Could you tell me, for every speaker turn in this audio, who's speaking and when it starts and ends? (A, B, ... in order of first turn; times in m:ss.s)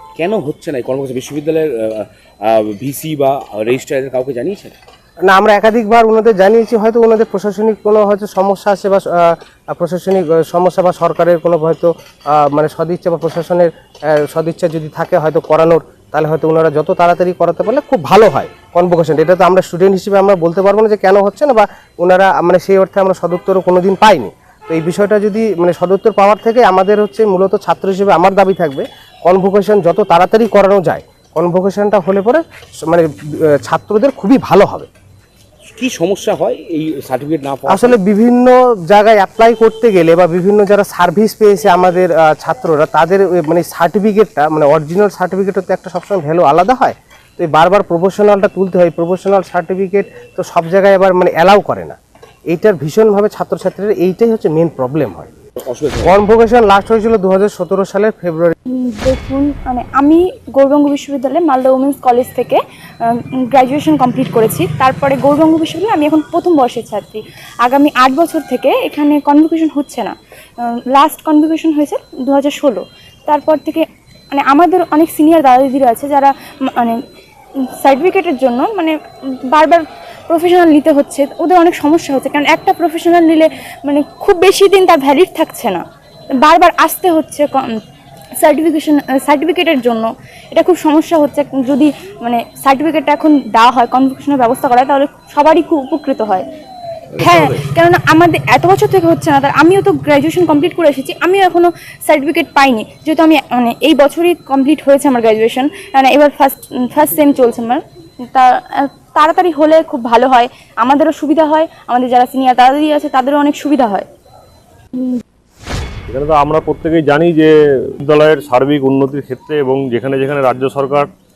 0:00.2-0:04.8 A
0:05.3-0:34.9 B
0:35.7-0:38.0 A
0:37.6-0:52.0 B
0:52.5-0:55.3 B
0:55.6-0:56.2 A
0:56.1-0:58.5 B
0:58.7-1:17.0 C
1:17.8-1:18.9 C
1:19.5-1:25.8 C
1:26.4-1:27.8 C
1:28.4-1:36.4 C
1:37.1-1:37.7 A
1:37.2-1:54.1 C
1:56.1-2:01.1 D